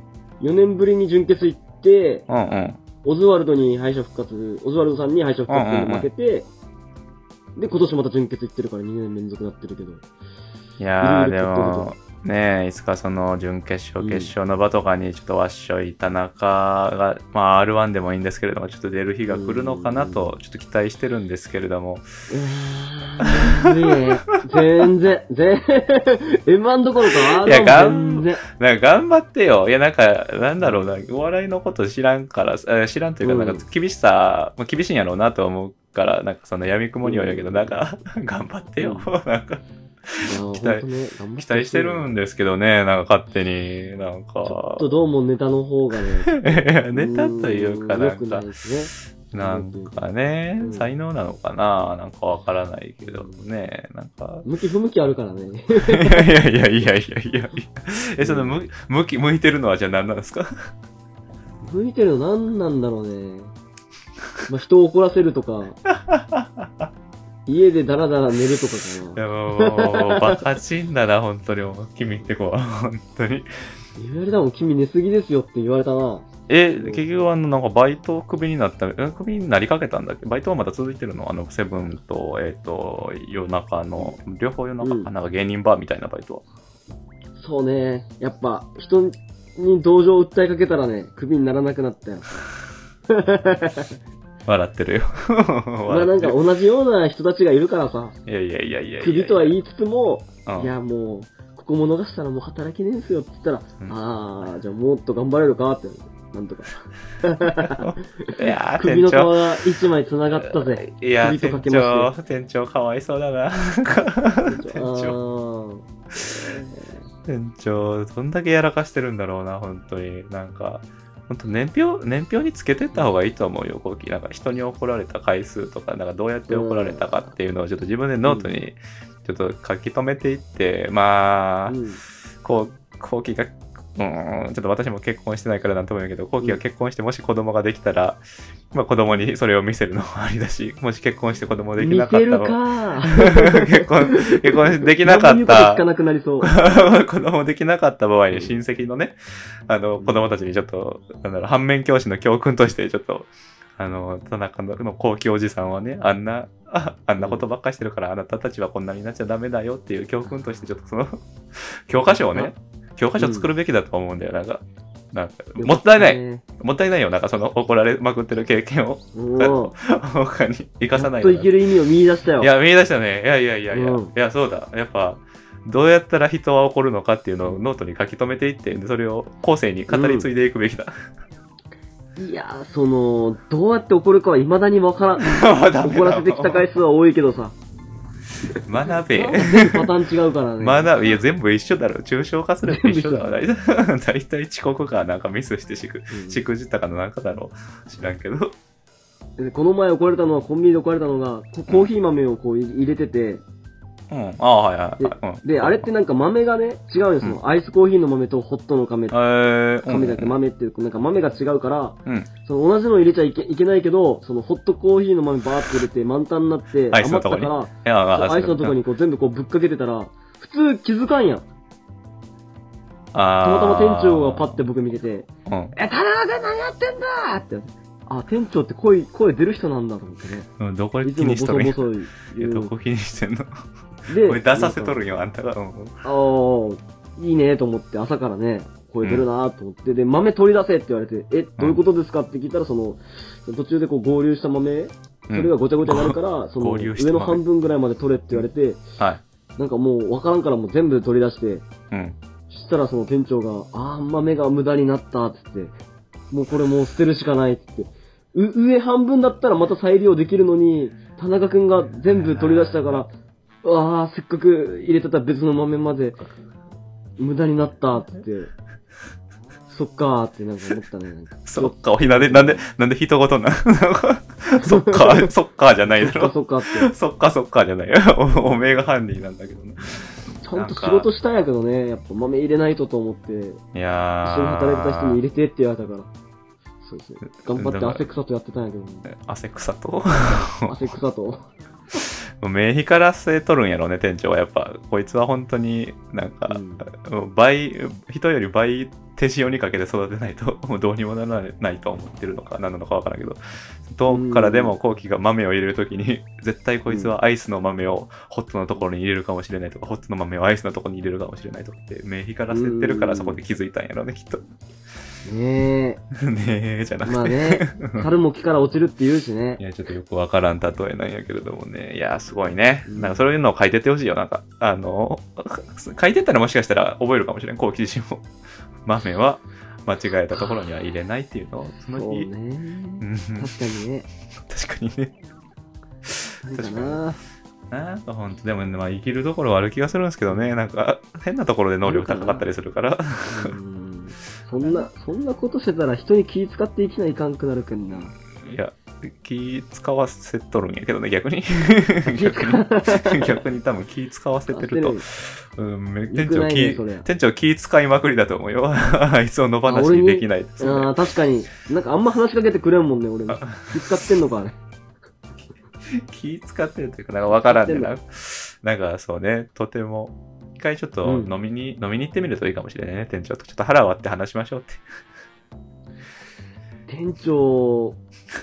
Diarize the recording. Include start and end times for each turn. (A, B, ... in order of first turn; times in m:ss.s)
0:00.4-0:02.2 A
0:02.3-0:02.8 B
0:03.0-0:06.5 A
0:05.5-0:06.1 B
0:07.6-0:10.0 A
0:10.8-0:22.0 B
0:11.0-0:11.9 A
0:14.0-0:14.3 A
0:19.3-0:20.3 A
0:22.3-0:28.4 A
0:23.4-0:23.7 B
0:24.6-0:24.8 B
0:27.4-0:40.8 B
0:33.2-0:33.6 A
0:37.0-0:37.8 A
0:38.8-0:39.1 A
0:40.2-0:42.1 A
0:41.4-0:44.8 B
0:44.4-0:50.0 A
0:46.3-0:48.5 B
0:49.3-0:54.4 B
0:50.6-0:50.9 A
0:53.0-0:53.4 A
0:54.4-0:56.3 A
0:55.8-1:00.7 B
0:58.2-0:58.6 A
1:01.6-1:03.5 A
1:04.4-1:05.8 A
1:05.9-1:06.9 B
1:07.4-1:10.4 A
1:09.1-1:13.5 B
1:14.0-1:16.3 A
1:16.5-1:26.4 B
1:24.8-1:25.1 A
1:27.4-1:32.3 A
1:33.1-1:34.0 A
1:34.4-1:36.4 B
1:35.9-1:38.2 A
1:38.2-1:39.6 B
1:39.0-1:52.1 A
1:40.4-1:40.7 B
1:47.5-1:49.4 B
1:50.3-1:55.2 B
1:54.5-1:57.0 A
1:57.2-2:11.8 B
2:06.5-2:07.0 A
2:08.2-2:08.5 A
2:11.7-2:12.0 A
2:12.4-2:25.8 B
2:21.8-2:26.5 A
2:26.4-2:29.2 B
2:29.7-2:51.5 B
2:37.2-2:37.4 A
2:43.2-2:43.5 A
2:45.6-2:46.4 A
2:49.1-2:49.7 A
2:50.9-2:52.5 A
2:52.4-3:00.9 B
2:53.7-2:54.1 A
2:59.9-3:00.3 A
3:02.2-3:07.5 A
3:05.2-3:06.6 B
3:08.6-3:09.9 B
3:09.1-3:11.0 A
3:10.6-3:18.6 B
3:12.6-3:13.4 A
3:16.1-3:16.4 A
3:19.4-3:23.4 A
3:24.1-3:25.9 B
3:25.0-3:29.2 A
3:29.1-3:30.4 B
3:29.9-3:41.4 A
3:36.9-3:38.8 B
3:43.1-3:44.6 B
3:43.4-3:50.5 A
3:45.4-3:45.8 B
3:50.6-3:53.5 B
3:51.0-3:52.7 A
3:54.1-3:55.0 A
3:54.1-3:56.0 B
3:56.0-4:08.8 A
4:01.6-4:01.8 B
4:05.3-4:07.4 B
4:09.0-4:09.2 B
4:09.6-4:11.6 A
4:11.9-4:12.2 B
4:12.5-4:15.7 A
4:16.3-4:23.1 A
4:22.1-4:23.0 B
4:23.6-4:26.2 A
4:27.2-4:28.5 A
4:29.7-4:32.6 A
4:31.4-4:41.1 B
4:34.6-4:35.3 A
4:36.0-4:36.9 A
4:38.3-4:38.6 A
4:40.4-4:43.6 A
4:43.7-4:45.2 B
4:44.2-4:46.1 A
4:46.8-4:49.1 A
4:47.5-4:48.0 B
4:49.1-4:50.9 B
4:50.7-4:51.5 A
4:51.9-5:14.4 B
4:56.5-4:56.8 A
5:04.1-5:04.7 A
5:06.9-5:07.1 A
5:12.5-5:13.4 A
5:15.2-5:16.0 A
5:16.1-5:18.1 B
5:17.0-5:19.6 A
5:19.6-5:28.2 B
5:22.9-5:23.2 A
5:28.8-5:32.3 B
5:31.9-5:34.1 A
5:33.0-5:33.6 B
5:34.4-5:35.1 B
5:36.0-5:37.0 B
5:36.4-5:37.2 A
5:37.7-5:43.5 B
5:41.8-5:42.5 A
5:43.3-5:48.1 A
5:44.6-5:44.9 B
5:47.9-6:00.9 B
5:52.0-5:53.4 A
5:54.5-5:55.0 A
5:56.1-5:57.1 A
5:59.7-6:04.6 A
6:03.3-6:03.9 B
6:05.8-6:14.8 B
6:07.3-6:07.9 A
6:11.0-6:11.3 A
6:16.9-6:18.0 A